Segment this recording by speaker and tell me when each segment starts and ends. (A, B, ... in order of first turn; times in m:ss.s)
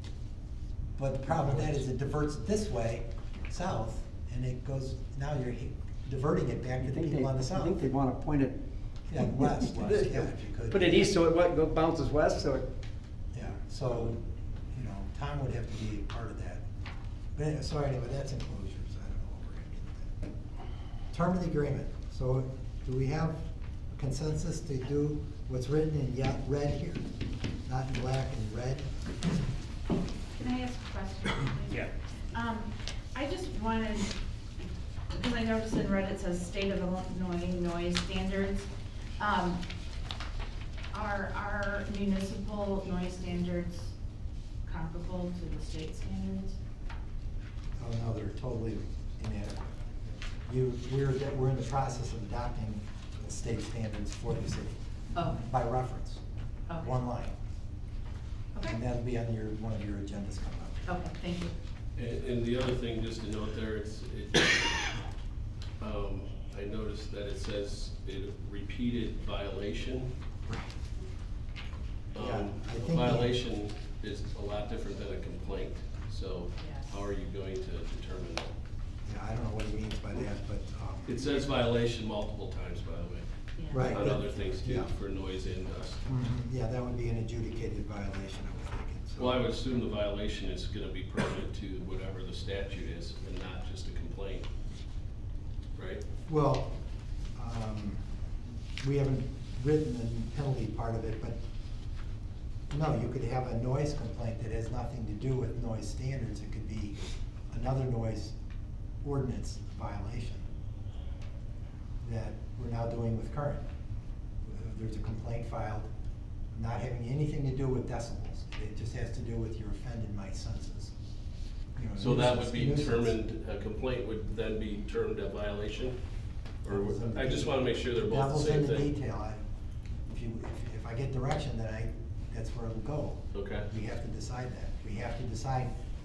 0:01.0-0:07.8 A
0:06.8-0:08.6 B
0:09.1-0:11.1 A
0:09.1-0:12.7 B
0:13.3-0:16.6 A
0:17.4-0:20.1 A
0:21.1-0:27.0 A
0:27.6-0:29.0 A
0:30.4-0:34.2 C
0:35.1-0:38.7 C
0:39.2-0:39.6 C
0:40.9-0:43.9 C
0:44.6-0:46.5 C
0:47.8-0:49.8 A
0:50.4-0:56.2 A
0:55.1-0:55.4 C
0:56.8-0:57.3 A
0:58.6-1:00.9 A
1:00.8-1:01.5 C
1:02.0-1:04.9 D
1:05.8-1:10.1 D
1:12.1-1:18.5 D
1:12.2-1:13.3 A
1:16.6-1:17.1 C
1:19.0-1:21.4 A
1:21.1-1:23.2 D
1:23.6-1:23.9 C
1:23.7-1:24.9 A
1:23.7-1:26.1 D
1:26.0-1:29.5 A
1:29.2-1:34.5 D
1:35.8-1:36.0 D
1:36.3-1:36.7 A
1:37.3-1:38.0 A
1:38.8-1:41.4 A
1:42.7-1:47.0 A
1:47.5-1:48.3 A
1:49.0-1:50.5 A
1:52.0-1:53.6 A
1:54.4-1:55.9 A
1:56.5-2:00.9 A
2:01.8-2:03.2 A
2:02.0-2:06.0 D
2:06.6-2:08.9 D
2:06.7-2:09.4 A
2:10.1-2:15.7 A
2:13.3-2:13.7 D